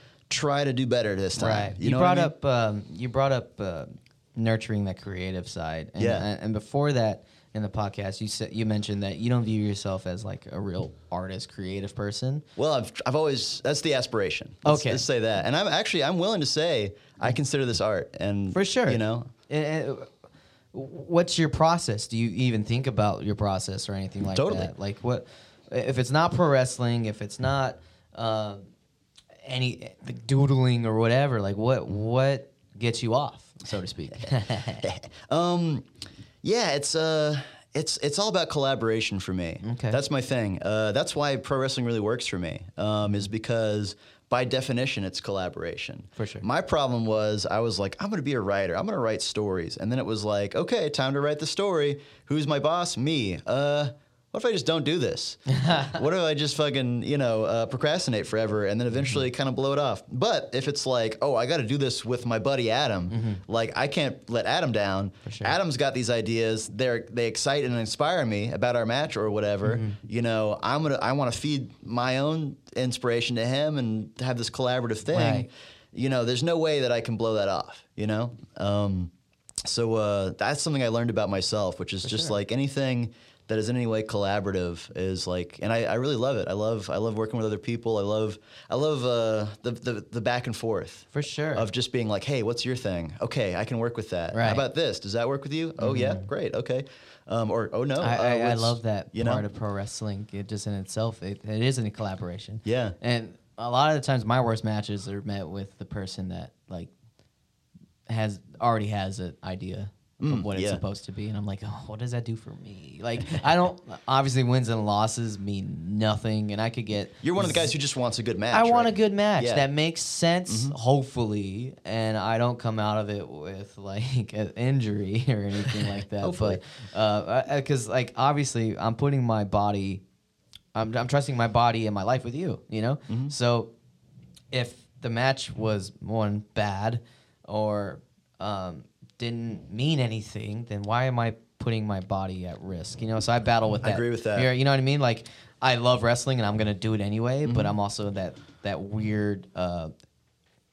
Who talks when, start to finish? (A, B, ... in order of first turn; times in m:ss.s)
0:00.3-0:02.3 A
0:01.4-0:12.4 B
0:06.0-0:06.2 A
0:12.6-0:19.3 A
0:14.6-0:15.0 B
0:18.5-0:20.1 B
0:20.7-0:28.6 B
0:24.3-0:24.7 A
0:29.4-0:34.9 B
0:34.8-0:35.9 A
0:36.4-1:19.1 A
0:39.6-0:40.0 B
0:46.2-0:46.4 B
0:55.5-0:56.0 B
1:03.1-1:03.4 B
1:05.2-1:05.5 B
1:09.6-1:10.0 B
1:15.1-1:15.5 B
1:19.6-1:39.4 A
1:22.0-1:22.4 B
1:31.1-1:31.7 B
1:34.3-1:34.6 B
1:35.8-1:36.3 B
1:38.0-1:46.9 B
1:42.6-1:43.0 A
1:48.1-1:57.7 B
1:50.2-1:50.8 A
1:57.2-1:59.7 A
1:58.5-2:10.0 B
2:00.5-2:00.8 A
2:06.2-2:06.6 A
2:10.7-2:13.7 B
2:13.1-2:13.3 A
2:14.5-2:29.9 B
2:23.8-2:24.5 A
2:27.4-2:27.7 A